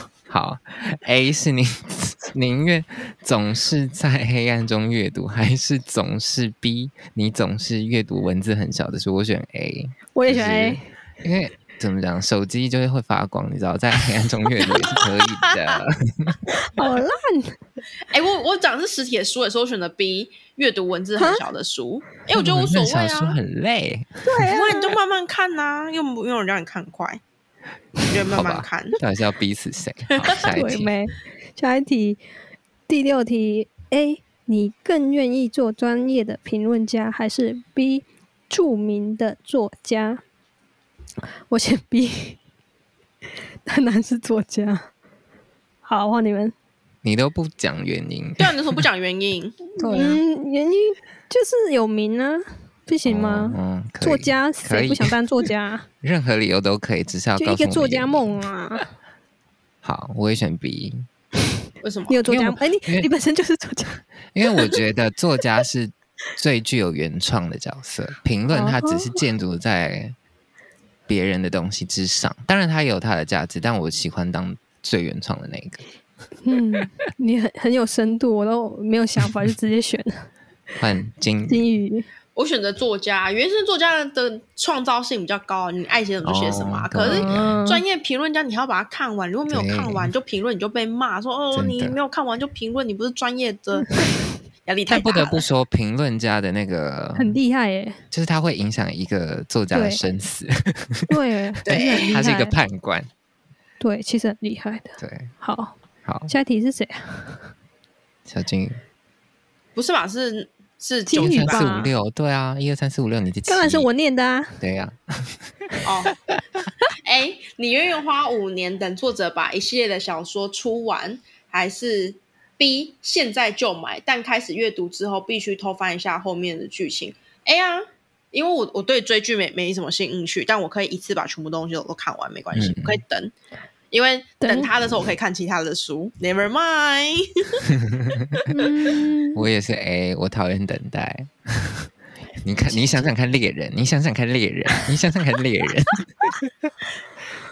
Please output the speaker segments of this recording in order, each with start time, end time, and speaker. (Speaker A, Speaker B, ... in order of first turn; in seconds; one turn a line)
Speaker A: 0.3-16.4
Speaker B: 10.1-10.8
Speaker C: 14.6-15.8
Speaker B: 16.5-17.6
Speaker C: 18.1-23.4
Speaker B: 21.2-21.4
Speaker A: 22.3-24.2
Speaker B: 24.2-24.9
Speaker C: 24.4-27.2
Speaker C: 28.0-29.0
Speaker A: 28.3-30.9
Speaker C: 30.2-30.5
Speaker B: 30.5-32.2
Speaker B: 32.9-40.2
Speaker B: 41.5-42.4
Speaker B: 43.6-44.9
Speaker B: 45.8-46.5
Speaker A: 47.0-48.9
Speaker C: 48.4-49.8
Speaker B: 49.8-55.9
Speaker A: 49.8-50.2
Speaker A: 53.0-55.1
Speaker A: 56.0-58.3
Speaker B: 57.4-58.9
Speaker A: 59.8-61.1
Speaker C: 61.8-62.2
Speaker B: 62.1-64.0
Speaker A: 62.3-63.1
Speaker A: 64.3-70.2
Speaker B: 68.5-69.2
Speaker A: 71.1-75.8
Speaker B: 76.4-80.3
Speaker A: 80.8-81.6
Speaker B: 81.5-82.1
Speaker C: 82.3-94.0
Speaker A: 86.2-87.6
Speaker B: 87.0-87.8
Speaker A: 89.5-90.1
Speaker A: 91.5-92.0
Speaker C: 94.7-95.4
Speaker A: 94.9-97.4
Speaker B: 97.2-98.0
Speaker A: 98.1-101.1
Speaker B: 99.7-100.0
Speaker B: 101.1-102.5
Speaker C: 101.7-102.2
Speaker A: 101.7-103.1
Speaker B: 103.8-105.7
Speaker A: 105.0-105.3
Speaker A: 106.0-106.3
Speaker B: 106.3-107.5
Speaker A: 108.3-108.8
Speaker C: 109.8-111.7
Speaker B: 111.1-111.9
Speaker A: 111.2-113.9
Speaker B: 113.5-114.6
Speaker A: 114.6-115.5
Speaker C: 115.8-116.2
Speaker C: 117.0-133.3
Speaker A: 132.5-133.0
Speaker C: 133.9-137.6
Speaker B: 134.4-134.7
Speaker A: 137.8-138.4
Speaker B: 138.5-139.4
Speaker A: 139.3-141.9
Speaker A: 142.4-146.7